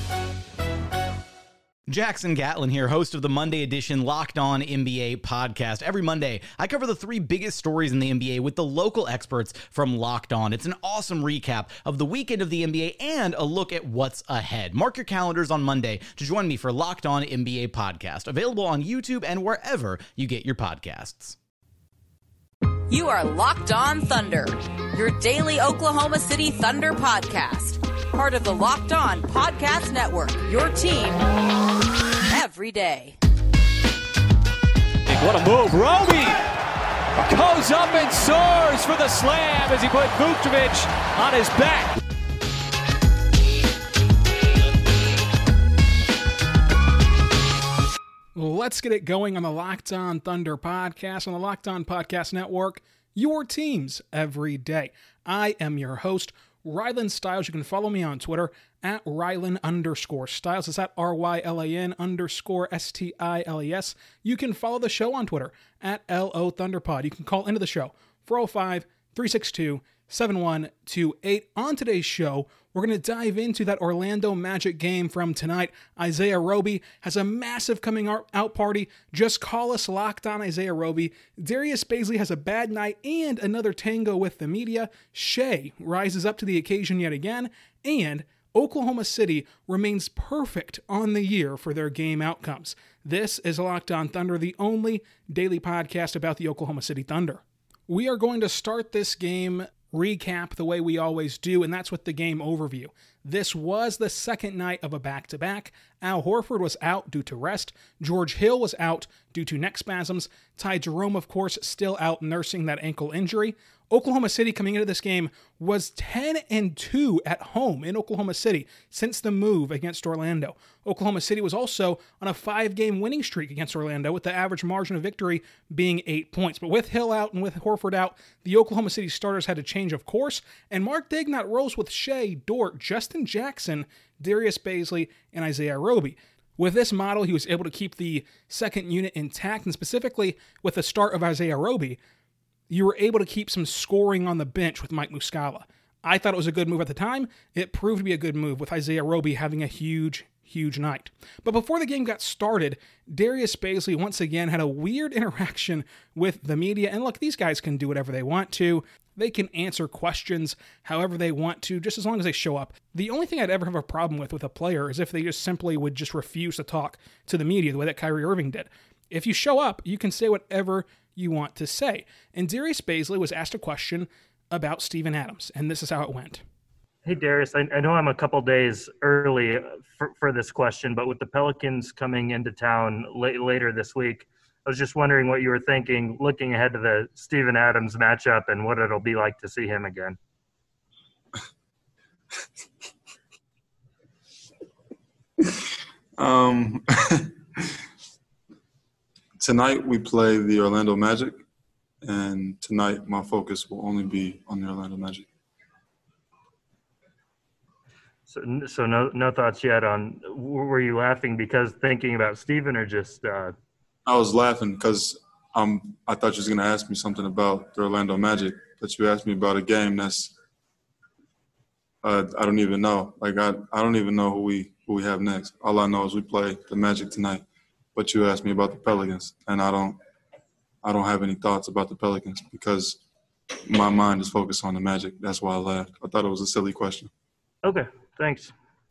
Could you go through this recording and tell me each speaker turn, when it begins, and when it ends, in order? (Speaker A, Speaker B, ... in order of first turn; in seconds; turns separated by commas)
Speaker A: 1.9-21.4, Speaker B: 22.9-31.3, Speaker B: 32.3-33.2, Speaker C: 35.1-36.4, Speaker C: 37.2-41.9, Speaker D: 48.3-142.0, Speaker D: 142.7-176.4, Speaker E: 177.0-190.2, Speaker F: 196.2-197.7, Speaker F: 199.4-201.4, Speaker F: 202.0-205.3, Speaker E: 208.3-213.5, Speaker F: 214.1-220.3, Speaker F: 222.0-227.4, Speaker F: 227.9-230.0, Speaker F: 230.8-233.0, Speaker F: 233.7-237.1, Speaker E: 237.6-238.5